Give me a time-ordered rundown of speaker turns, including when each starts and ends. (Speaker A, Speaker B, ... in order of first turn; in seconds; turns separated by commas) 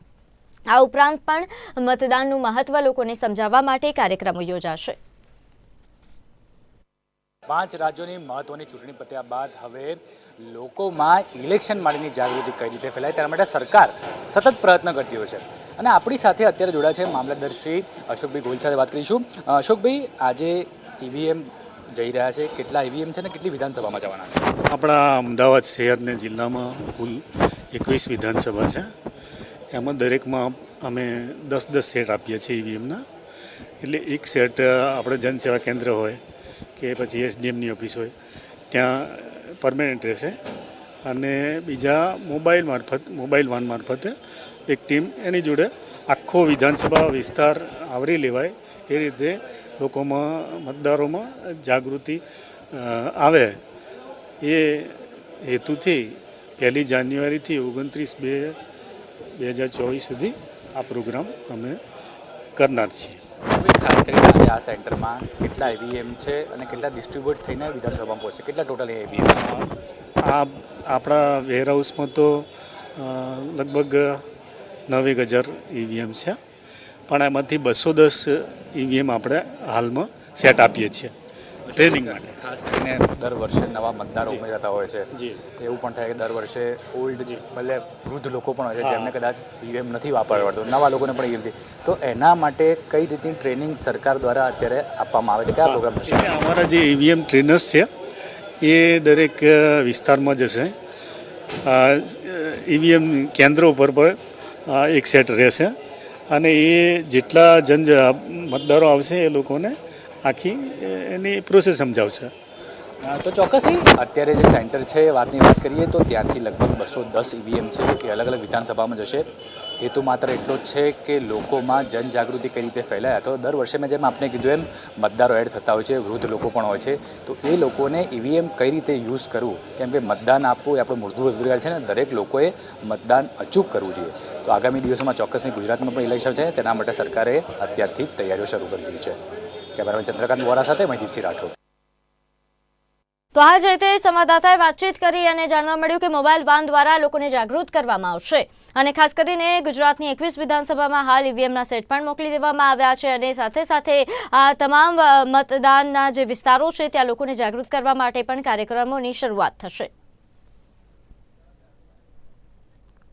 Speaker A: 0.7-5.0, Speaker B: 7.5-24.5, Speaker C: 24.6-28.9, Speaker C: 29.7-33.0, Speaker C: 33.8-36.2, Speaker C: 36.8-38.1, Speaker C: 38.7-40.4, Speaker C: 41.0-44.1, Speaker C: 44.7-53.6, Speaker C: 54.4-58.6, Speaker C: 59.4-61.8, Speaker C: 62.6-63.2, Speaker B: 63.5-69.6, Speaker C: 69.4-74.2, Speaker C: 74.9-76.4, Speaker C: 77.1-81.1, Speaker B: 81.7-96.4, Speaker C: 81.7-82.4, Speaker C: 88.8-89.1, Speaker C: 95.7-97.9, Speaker C: 98.6-100.7, Speaker C: 101.6-105.7, Speaker C: 106.3-112.3, Speaker B: 113.0-119.3, Speaker B: 119.8-139.2, Speaker B: 139.8-141.6, Speaker A: 143.3-159.9